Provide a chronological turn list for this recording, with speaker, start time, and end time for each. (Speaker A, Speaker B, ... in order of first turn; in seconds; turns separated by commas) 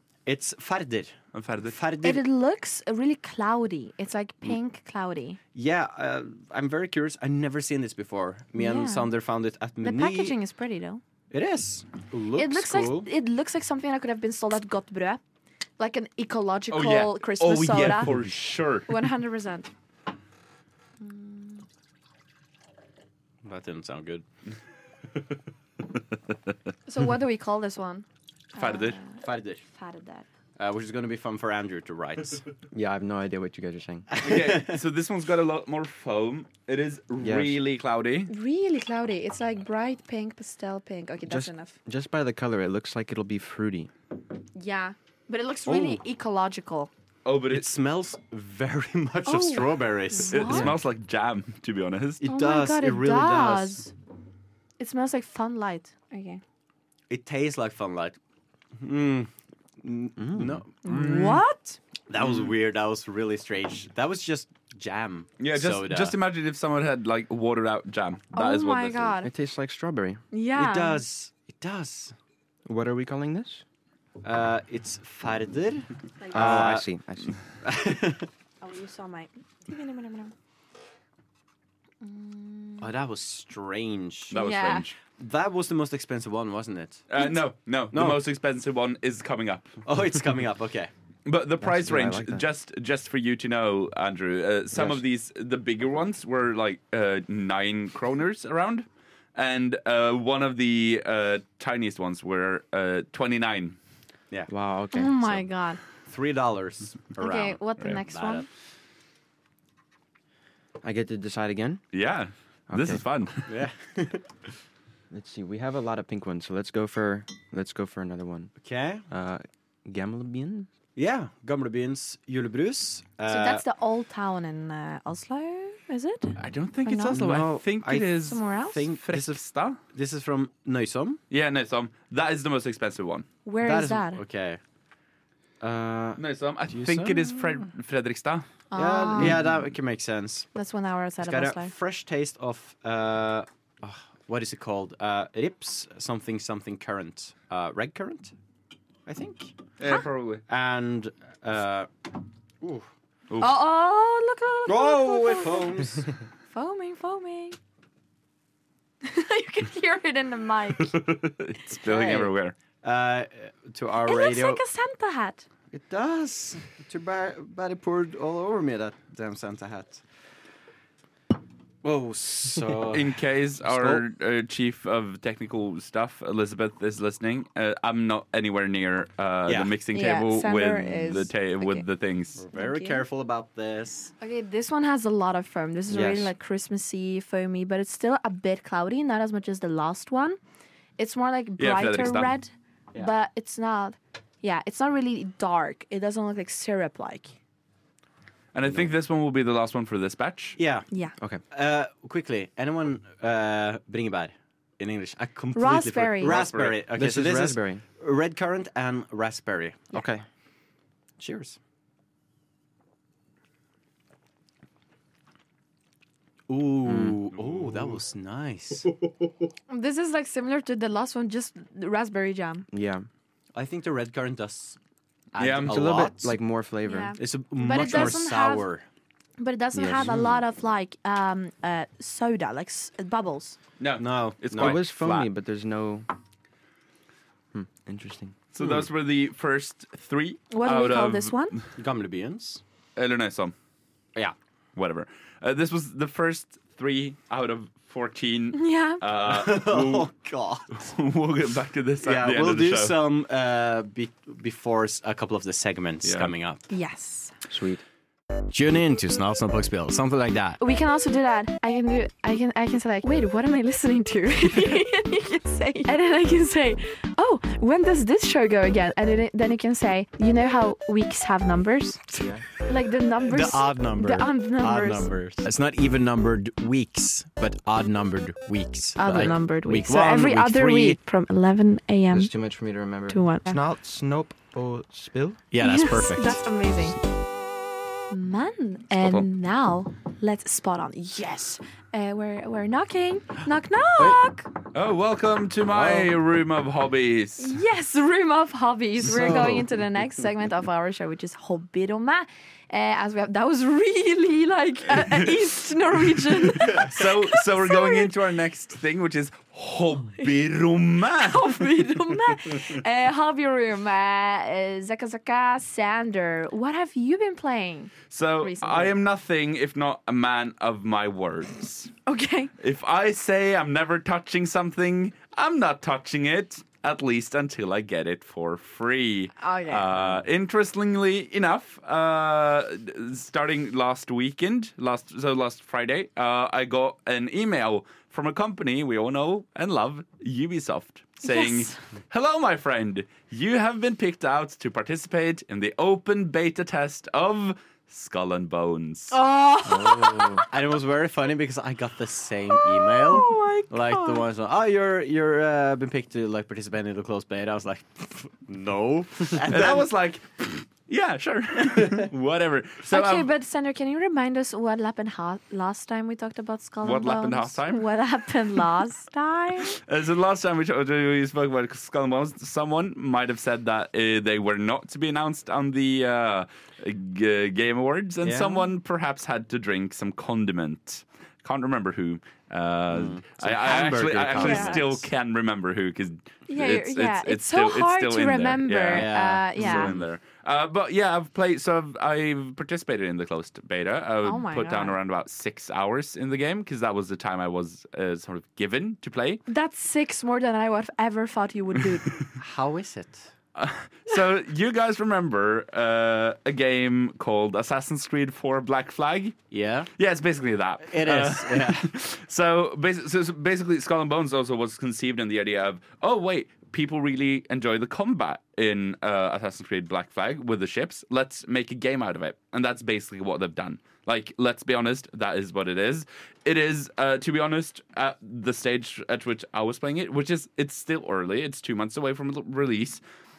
Speaker A: 0.3-2.2, Speaker B: 1.3-1.8, Speaker C: 2.0-5.4, Speaker A: 5.5-10.4, Speaker C: 8.6-9.1, Speaker C: 9.8-11.0, Speaker A: 11.3-13.1, Speaker C: 12.4-15.2, Speaker C: 15.8-18.1, Speaker B: 16.7-18.9, Speaker C: 18.9-19.7, Speaker C: 21.0-21.6, Speaker A: 23.4-24.2, Speaker C: 26.9-30.3, Speaker B: 28.6-29.0, Speaker A: 29.2-29.6, Speaker A: 30.6-32.5, Speaker D: 32.7-34.1, Speaker A: 34.1-34.8, Speaker B: 34.2-38.3, Speaker D: 37.2-37.6, Speaker C: 38.3-41.8, Speaker D: 41.2-43.9, Speaker C: 44.6-46.9, Speaker A: 45.7-46.0, Speaker B: 47.2-47.7, Speaker A: 47.5-50.6, Speaker C: 49.3-50.7, Speaker B: 50.3-52.2, Speaker D: 50.5-50.8, Speaker A: 52.2-53.8, Speaker C: 52.2-53.9, Speaker C: 54.8-56.4, Speaker A: 57.1-58.2, Speaker A: 58.8-59.3, Speaker A: 59.8-61.1, Speaker D: 60.2-60.6, Speaker C: 60.8-61.8, Speaker B: 60.9-61.4, Speaker A: 62.1-66.2, Speaker B: 62.2-62.5, Speaker B: 65.4-69.2, Speaker C: 68.3-69.3, Speaker D: 69.2-70.2, Speaker C: 70.3-71.0, Speaker A: 70.6-72.2, Speaker D: 72.7-73.6, Speaker A: 74.2-76.9, Speaker C: 76.2-76.5, Speaker D: 76.3-77.4, Speaker A: 77.6-78.3, Speaker C: 78.6-80.3, Speaker C: 82.0-82.9, Speaker A: 82.8-84.4, Speaker C: 84.3-84.9, Speaker B: 84.3-85.0, Speaker A: 85.1-87.0, Speaker B: 87.1-89.7, Speaker A: 87.9-88.2, Speaker A: 89.8-90.9, Speaker B: 91.3-103.8, Speaker D: 91.6-92.4, Speaker D: 104.5-105.5, Speaker C: 104.9-105.8, Speaker A: 106.1-108.5, Speaker C: 107.2-108.5, Speaker D: 110.8-111.8, Speaker B: 111.9-113.5, Speaker D: 112.7-113.0, Speaker A: 113.5-114.3, Speaker D: 115.1-118.5, Speaker A: 118.6-119.1, Speaker D: 119.1-120.7, Speaker A: 121.0-123.6, Speaker C: 123.3-127.2, Speaker B: 126.4-128.4, Speaker A: 127.1-129.4, Speaker C: 128.2-128.8, Speaker B: 128.9-129.8, Speaker A: 129.9-131.2, Speaker B: 131.3-133.3, Speaker C: 133.4-134.2, Speaker A: 133.6-134.6, Speaker A: 135.6-136.2, Speaker B: 136.2-138.5, Speaker A: 136.7-137.4, Speaker C: 138.7-139.4, Speaker A: 138.8-140.5, Speaker B: 139.2-139.4, Speaker C: 140.6-141.7, Speaker A: 141.2-148.3, Speaker A: 149.1-149.6, Speaker B: 149.8-150.4, Speaker A: 150.5-152.9, Speaker B: 153.3-153.6, Speaker C: 153.4-155.7, Speaker A: 154.7-156.1, Speaker C: 156.5-157.6, Speaker C: 159.0-161.0, Speaker B: 160.8-162.6, Speaker A: 161.7-164.6, Speaker C: 164.1-165.5, Speaker A: 165.7-170.0, Speaker A: 171.8-174.0, Speaker B: 172.9-182.4, Speaker A: 179.5-179.7, Speaker C: 179.9-181.9, Speaker A: 182.4-184.1, Speaker C: 182.5-183.0, Speaker C: 184.2-190.4, Speaker D: 185.9-186.3, Speaker C: 191.0-197.3, Speaker B: 191.6-192.3, Speaker B: 198.5-200.6, Speaker A: 200.6-200.9, Speaker A: 201.5-209.9, Speaker C: 205.5-206.4, Speaker B: 206.2-206.8, Speaker D: 207.0-207.8, Speaker D: 209.9-210.2, Speaker A: 211.2-211.6, Speaker A: 216.5-218.9, Speaker D: 216.9-217.2, Speaker B: 217.3-218.0, Speaker C: 219.7-222.7, Speaker D: 222.7-223.1, Speaker A: 223.5-224.8, Speaker A: 225.3-226.4, Speaker B: 225.4-225.8, Speaker D: 225.7-227.2, Speaker C: 226.9-228.7, Speaker A: 227.2-228.8, Speaker C: 229.4-233.6, Speaker D: 229.7-230.3, Speaker B: 233.8-235.3, Speaker A: 234.0-234.8, Speaker D: 234.6-236.1, Speaker D: 237.5-238.3, Speaker B: 238.5-241.6, Speaker C: 240.5-241.6, Speaker A: 241.8-242.6, Speaker B: 243.0-243.5, Speaker B: 244.8-250.1, Speaker C: 248.5-249.0, Speaker A: 249.2-250.8, Speaker B: 250.8-253.0, Speaker A: 252.0-256.6, Speaker B: 256.0-256.3, Speaker C: 256.7-257.3, Speaker D: 257.5-257.8, Speaker A: 258.5-260.6, Speaker C: 260.6-272.1, Speaker D: 272.2-272.4, Speaker C: 272.6-275.1, Speaker A: 273.3-281.0, Speaker C: 279.0-282.3, Speaker D: 282.1-285.4, Speaker C: 283.1-283.6, Speaker A: 285.5-286.4, Speaker C: 285.6-287.0, Speaker C: 288.1-294.5, Speaker B: 294.7-297.6, Speaker A: 295.7-296.1, Speaker C: 297.4-308.1, Speaker A: 299.0-299.7, Speaker B: 306.5-311.6, Speaker C: 311.2-318.9, Speaker B: 318.1-321.9, Speaker C: 322.1-322.5, Speaker B: 322.6-349.1, Speaker C: 329.4-329.9, Speaker C: 341.2-341.8, Speaker C: 349.1-350.4, Speaker D: 349.7-350.4, Speaker A: 350.5-359.9, Speaker C: 352.5-354.2, Speaker B: 359.4-363.3, Speaker C: 362.9-369.8, Speaker B: 366.8-367.9, Speaker B: 369.7-399.4, Speaker A: 378.2-378.6, Speaker A: 382.9-385.1, Speaker C: 384.4-384.8, Speaker C: 386.5-389.9, Speaker A: 388.9-390.1, Speaker C: 394.2-395.0, Speaker C: 399.5-402.1, Speaker A: 402.4-403.3, Speaker B: 403.6-409.4, Speaker A: 409.5-409.9, Speaker B: 410.0-433.0, Speaker A: 410.9-411.9